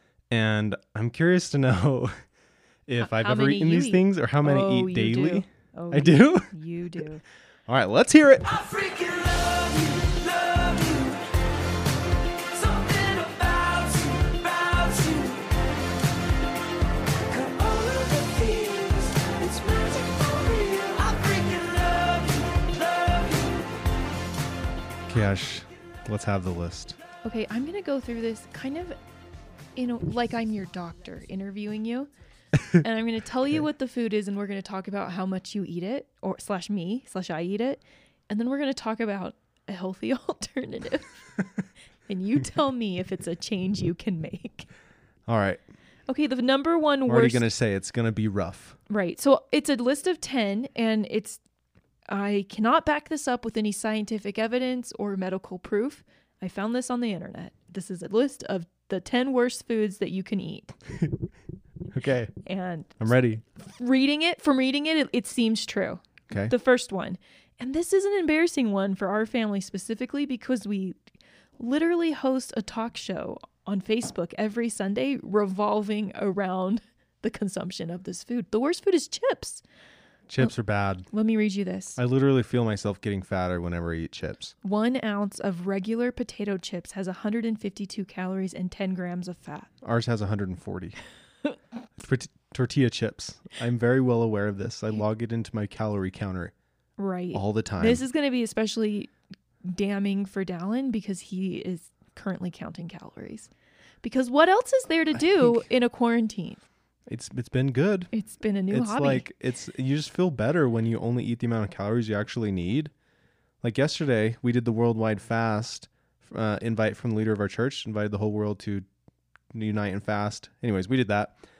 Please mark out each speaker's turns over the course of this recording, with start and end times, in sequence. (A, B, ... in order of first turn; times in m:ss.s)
0:00.3-0:02.2 A
0:02.9-0:06.5 A
0:03.0-0:07.2 B
0:07.7-0:08.8 A
0:09.0-0:11.1 C
0:12.6-0:15.4 C
0:17.3-0:23.5 C
0:25.1-0:27.0 A
0:27.2-0:29.0 B
0:29.8-0:32.1 B
0:32.7-0:41.2 B
0:42.1-0:44.7 B
0:45.3-0:45.6 A
0:46.1-0:47.4 B
0:47.0-0:48.8 A
0:48.9-0:51.4 B
0:52.1-1:00.7 B
1:01.9-1:02.3 A
1:02.4-1:11.0 B
1:03.0-1:03.4 A
1:11.6-1:19.6 B
1:20.3-1:21.0 A
1:21.1-1:22.0 B
1:22.0-1:24.5 A
1:24.6-1:29.7 B
1:29.8-1:31.0 A
1:32.0-1:36.5 A
1:37.0-1:39.1 B
1:37.3-1:38.0 A
1:39.6-1:43.5 B
1:44.0-1:46.6 B
1:45.2-1:45.6 A
1:47.1-1:48.1 A
1:48.1-1:49.2 B
1:48.7-1:52.9 A
1:53.6-1:58.8 A
1:59.5-2:01.3 A